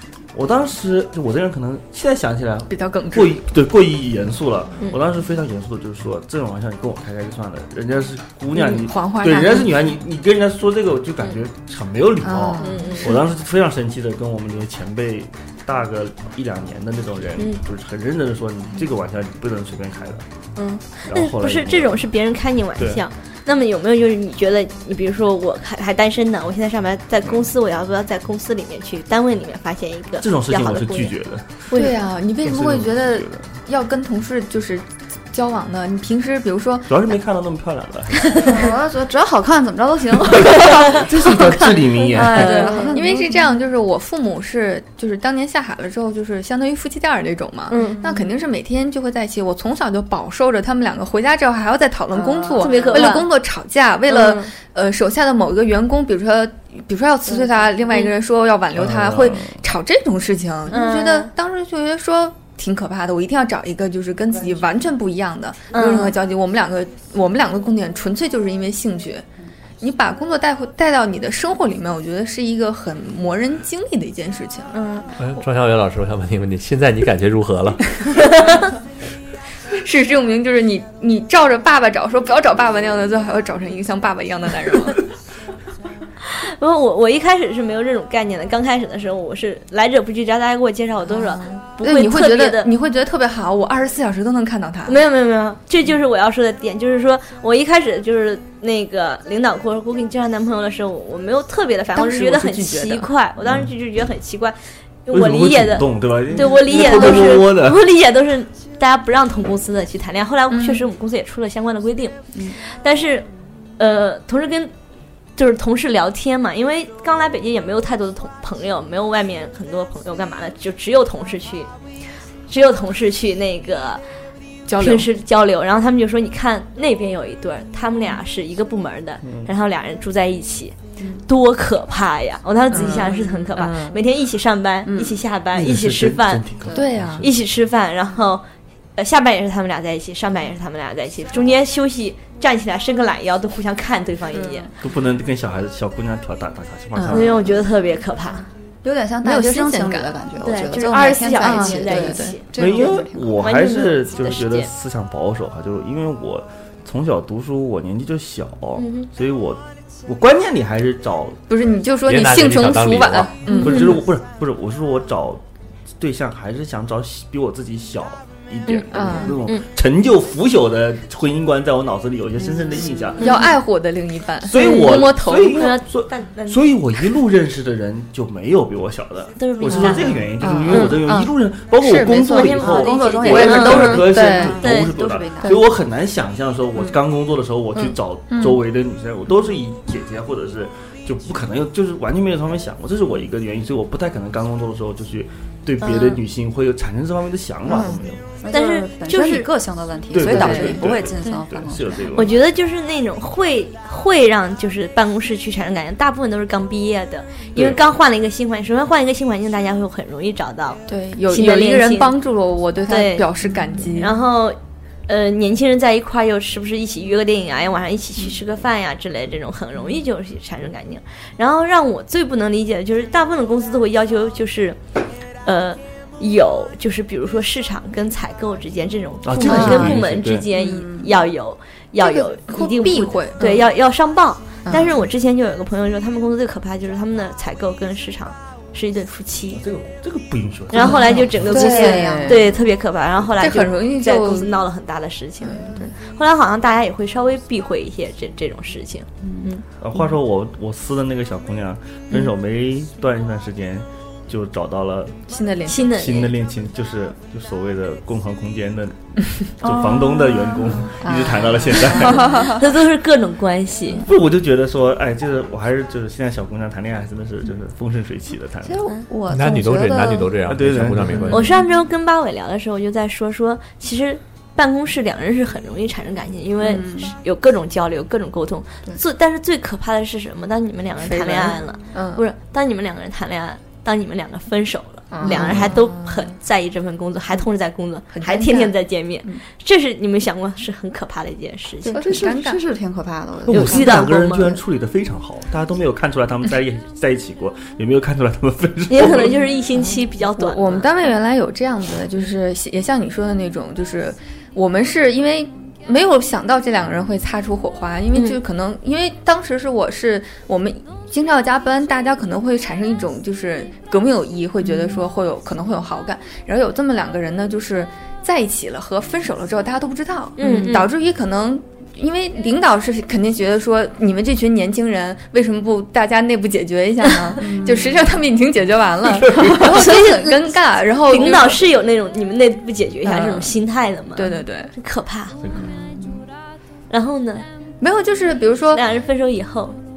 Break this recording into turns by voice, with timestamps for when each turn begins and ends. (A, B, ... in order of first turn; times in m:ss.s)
0:00.3-0:20.2 A
0:02.7-0:03.4 B
0:08.5-0:09.7 B
0:12.2-0:13.1 B
0:12.6-0:13.2 C
0:20.6-0:31.1 C
0:21.0-0:22.1 A
0:30.2-0:31.6 A
0:31.7-0:31.9 C
0:31.7-0:36.9 B
0:32.4-0:33.5 A
0:36.9-0:38.7 A
0:38.3-0:43.4 D
0:40.9-0:42.7 A
0:42.2-0:43.0 C
0:42.2-1:09.2 B
0:47.7-0:48.0 C
0:47.8-0:48.2 D
0:52.2-0:53.1 D
0:52.6-0:53.3 C
0:54.1-0:54.5 C
0:58.7-0:59.5 A
1:00.7-1:01.3 C
1:05.7-1:06.2 C
1:09.8-1:14.8 B
1:14.7-1:15.1 C
1:15.2-1:18.2 E
1:18.2-1:18.6 C
1:19.7-1:25.0 B
1:26.2-1:32.7 C
1:31.8-1:35.0 B
1:34.8-1:53.2 C
1:41.9-1:43.0 B
1:45.1-1:47.8 A
1:50.5-1:50.8 B
1:53.8-1:54.7 C
1:55.4-2:01.7 C
2:02.5-2:04.0 C
2:04.7-2:05.1 B
2:04.8-2:10.7 C
2:11.3-2:16.4 C
2:12.7-2:14.0 B
2:15.5-2:17.3 A
2:16.7-2:17.2 B
2:17.2-2:18.4 C
2:19.0-2:24.7 C
2:24.3-2:24.7 B
2:24.8-2:27.6 A
2:27.0-2:27.3 B
2:27.1-2:28.5 C
2:28.8-2:33.4 D
2:29.2-2:30.1 B
2:30.4-2:32.7 C
2:31.4-2:32.4 B
2:32.6-2:41.4 A
2:33.4-2:34.7 C
2:38.8-2:39.1 C
2:41.5-2:44.0 B
2:42.0-2:43.4 E
2:43.4-2:45.4 A
2:43.5-2:44.0 C
2:46.0-2:53.2 A
2:48.7-2:49.6 C
2:48.9-2:49.4 B
2:53.2-2:55.7 B
2:53.2-2:53.5 C
2:54.4-3:18.2 A
2:54.6-2:56.7 C
2:59.4-3:01.0 C
2:59.7-3:02.6 B
3:02.3-3:05.0 C
3:02.5-3:05.6 D
3:03.2-3:04.6 B
3:08.3-3:08.6 B
3:15.8-3:16.2 C
3:17.7-3:18.0 B
3:18.4-3:22.0 D
3:18.5-3:19.5 C
3:20.1-3:22.4 A
3:20.3-3:20.8 B
3:22.1-3:32.2 C
3:30.9-3:34.2 B
3:32.9-3:44.8 C
3:45.4-3:59.6 C
3:49.2-3:50.4 A
3:49.3-3:50.0 B
3:50.6-3:51.1 D
3:52.0-3:53.7 B
3:54.6-3:55.0 B
3:59.6-4:01.9 A
4:00.7-4:09.6 C
4:00.7-4:02.4 B
4:01.5-4:02.4 D
4:03.4-4:04.5 B
4:05.4-4:05.8 B
4:09.8-4:19.0 A
4:15.3-4:15.9 B
4:15.6-4:16.3 C
4:19.6-4:22.4 A
4:19.6-4:20.9 D
4:21.0-4:22.6 B
4:22.1-4:24.0 C
4:24.0-4:28.8 A
4:28.6-4:30.3 D
4:29.3-4:31.5 E
4:30.4-4:31.5 A
4:31.3-4:52.0 C
4:36.6-4:37.1 D
4:41.0-4:42.2 B
4:45.1-4:46.1 B
4:45.2-4:45.6 D
4:48.1-4:48.7 B
4:51.8-4:54.1 D
4:51.9-4:52.6 B
4:53.5-4:59.4 A
4:53.5-4:54.6 C
4:58.9-5:01.0 C
5:00.4-5:31.6 B
5:08.1-5:08.4 C
5:20.4-5:20.9 C
5:27.4-5:28.0 D
5:29.1-5:29.6 A
5:29.5-5:30.5 C
5:31.1-5:35.4 C
5:33.0-5:33.6 B
5:34.2-5:34.7 B
5:35.5-5:36.2 D
5:36.9-5:37.4 C
5:37.8-5:38.8 B
5:38.7-5:39.8 C